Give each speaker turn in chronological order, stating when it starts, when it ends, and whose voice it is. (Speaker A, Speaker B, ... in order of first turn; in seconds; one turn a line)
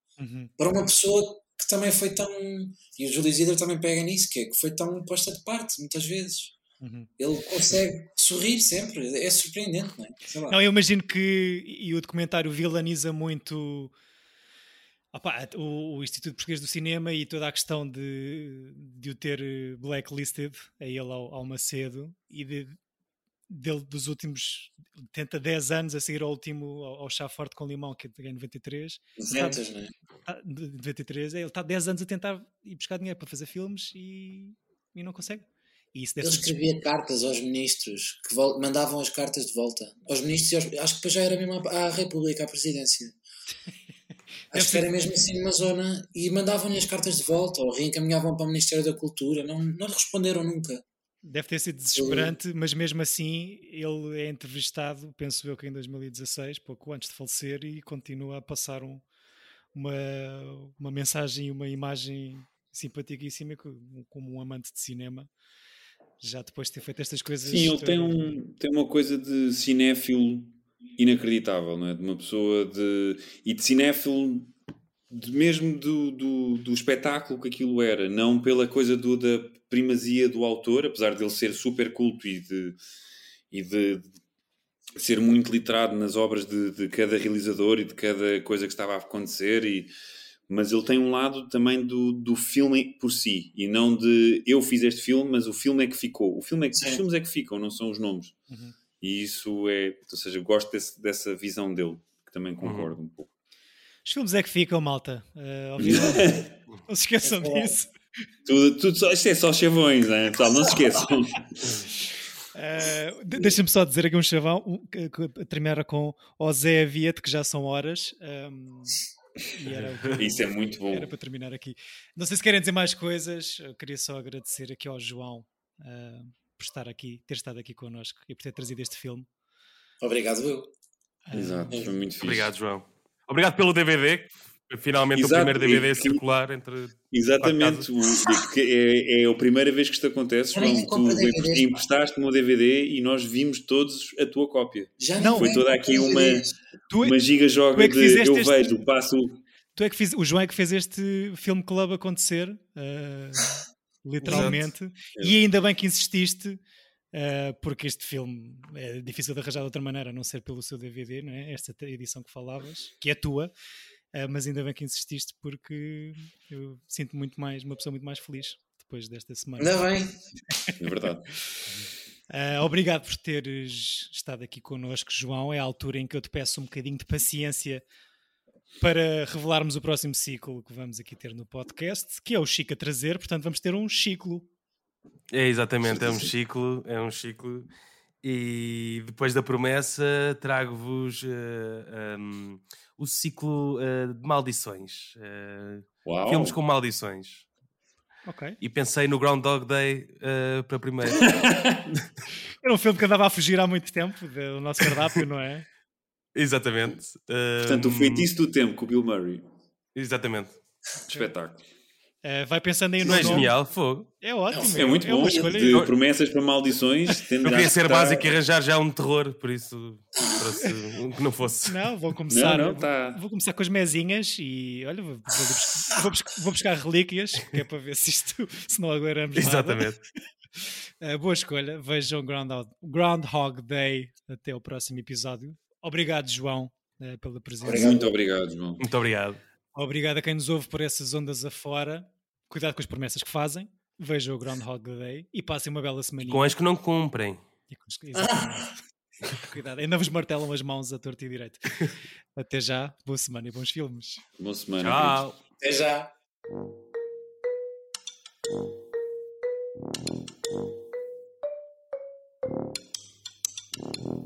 Speaker A: 0.2-0.5
Speaker B: 0.6-6.5
Speaker A: 6.8-7.1
Speaker B: 7.2-10.6
Speaker A: 10.5-13.9
Speaker A: 15.1-22.8
Speaker A: 23.5-29.6
Speaker B: 29.2-29.9
Speaker A: 30.2-36.6
Speaker B: 36.2-43.1
Speaker A: 44.5-44.9
Speaker B: 44.5-50.8
Speaker A: 51.2-59.0
Speaker B: 51.9-52.3
Speaker A: 59.7-65.3
Speaker A: 66.2-68.4
Speaker C: 67.4-74.5
Speaker C: 75.1-82.8
Speaker C: 83.5-84.2
Speaker C: 85.0-89.9
Speaker C: 90.5-98.3
Speaker B: 96.7-97.0
Speaker C: 99.0-103.3
Speaker D: 102.6-102.9
Speaker A: 104.0-107.9
Speaker C: 105.8-106.5
Speaker B: 107.2-107.7
Speaker C: 108.5-111.8
Speaker A: 112.5-119.0
Speaker A: 119.5-129.3
Speaker C: 120.2-121.1
Speaker B: 130.0-130.7
Speaker A: 131.3-131.7
Speaker C: 131.3-132.5
Speaker D: 132.2-137.9
Speaker C: 135.1-136.2
Speaker C: 137.1-146.5
Speaker B: 140.5-141.8
Speaker B: 145.0-146.5
Speaker A: 145.2-145.6
Speaker A: 146.9-147.2
Speaker C: 147.0-149.4
Speaker A: 147.7-148.8
Speaker A: 149.8-156.6
Speaker B: 154.2-154.6
Speaker C: 154.2-154.6
Speaker A: 157.1-163.5
Speaker A: 164.1-169.8
Speaker B: 169.6-170.1
Speaker C: 170.8-171.3
Speaker A: 172.3-177.8
Speaker A: 178.8-184.5
Speaker D: 185.3-187.7
Speaker C: 185.9-186.3
Speaker D: 188.2-197.4
Speaker C: 196.0-196.6
Speaker A: 198.2-198.6
Speaker D: 198.6-201.3
Speaker C: 201.2-201.8
Speaker A: 202.6-205.6
Speaker D: 206.3-208.3
Speaker C: 207.6-209.4
Speaker D: 209.9-210.5
Speaker C: 211.1-211.6
Speaker A: 212.2-213.5
Speaker D: 213.0-214.1
Speaker A: 214.2-215.8
Speaker B: 214.5-214.9
Speaker C: 214.8-218.3
Speaker D: 217.4-221.8
Speaker A: 221.7-229.9
Speaker C: 222.3-223.2
Speaker D: 229.3-230.0
Speaker A: 230.6-237.9
Speaker B: 237.6-238.1
Speaker C: 237.7-238.8
Speaker D: 238.8-239.4
Speaker A: 239.7-246.5
Speaker D: 246.2-247.4
Speaker A: 247.7-248.6
Speaker B: 248.1-248.7
Speaker A: 249.4-254.2
Speaker C: 254.4-255.2
Speaker D: 254.8-255.4
Speaker B: 255.6-256.1